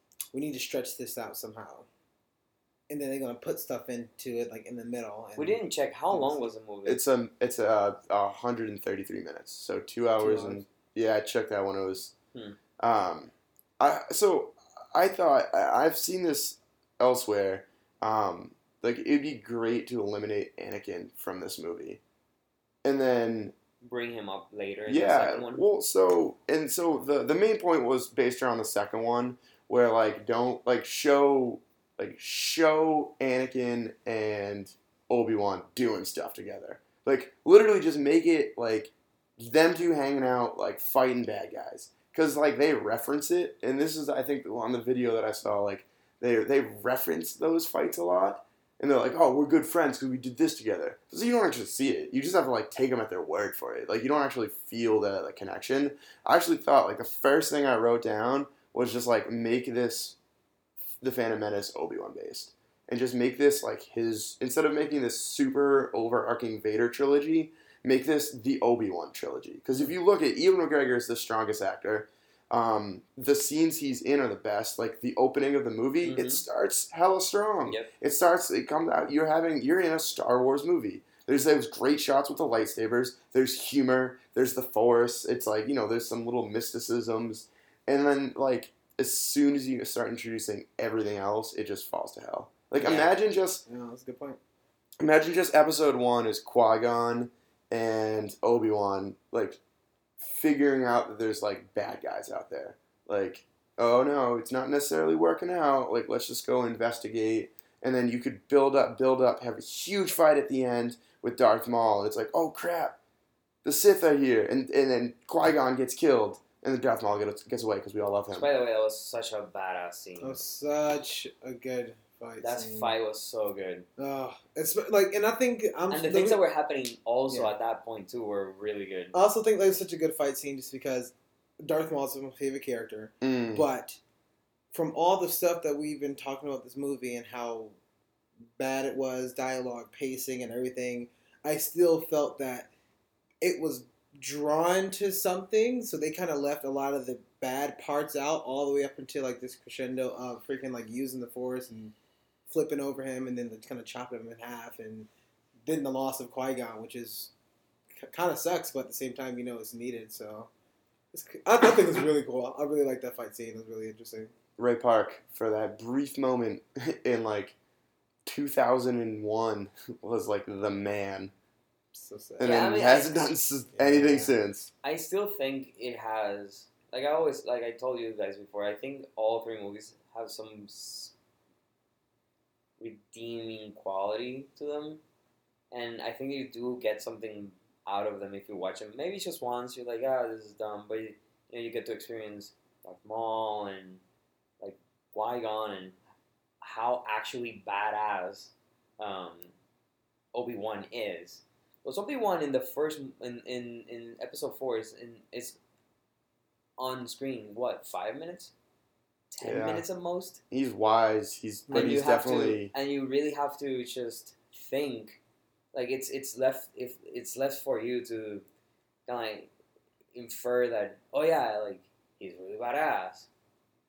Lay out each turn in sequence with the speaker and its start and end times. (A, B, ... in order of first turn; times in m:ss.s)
0:00.3-0:01.9 A
0:02.9-0:06.5 A
0:05.4-0:07.0 B
0:06.8-0:12.1 C
0:10.2-0:10.6 A
0:12.8-0:22.0 C
0:22.8-0:23.6 C
0:23.8-0:25.6 B
0:24.9-1:00.2 C
1:01.0-1:33.6 C
1:16.0-1:16.4 B
1:32.8-1:33.1 B
1:33.7-1:34.4 A
1:35.0-1:39.6 C
1:40.2-1:53.0 C
1:53.6-1:58.5 C
1:58.3-2:00.4 B
2:00.2-2:02.9 A
2:02.4-2:03.8 B
2:04.0-2:06.4 A
2:05.9-2:09.2 B
2:07.3-2:07.5 A
2:09.1-2:14.0 A
2:13.2-2:13.7 C
2:14.7-2:17.8 A
2:18.6-2:22.7 A
2:23.4-2:31.9 A
2:32.5-2:35.1 A
2:35.6-2:37.3 A
2:38.0-2:40.5 A
2:41.1-2:44.3 A
2:44.6-2:47.6 C
2:48.2-2:51.3 C
2:51.9-2:52.5 A
2:52.4-2:53.2 B
2:52.4-2:54.7 C
2:53.7-2:54.3 A
2:54.8-3:01.1 B
3:02.8-3:05.0 B
3:05.7-3:14.0 B
3:14.6-3:16.0 B
3:16.6-3:19.5 B
3:20.3-3:25.6 B
3:26.8-3:28.5 B
3:29.3-3:30.4 B
3:29.4-3:29.8 C
3:30.5-3:32.7 C
3:31.7-3:35.2 B
3:35.7-3:38.4 B
3:39.1-3:39.5 B
3:40.1-3:43.3 B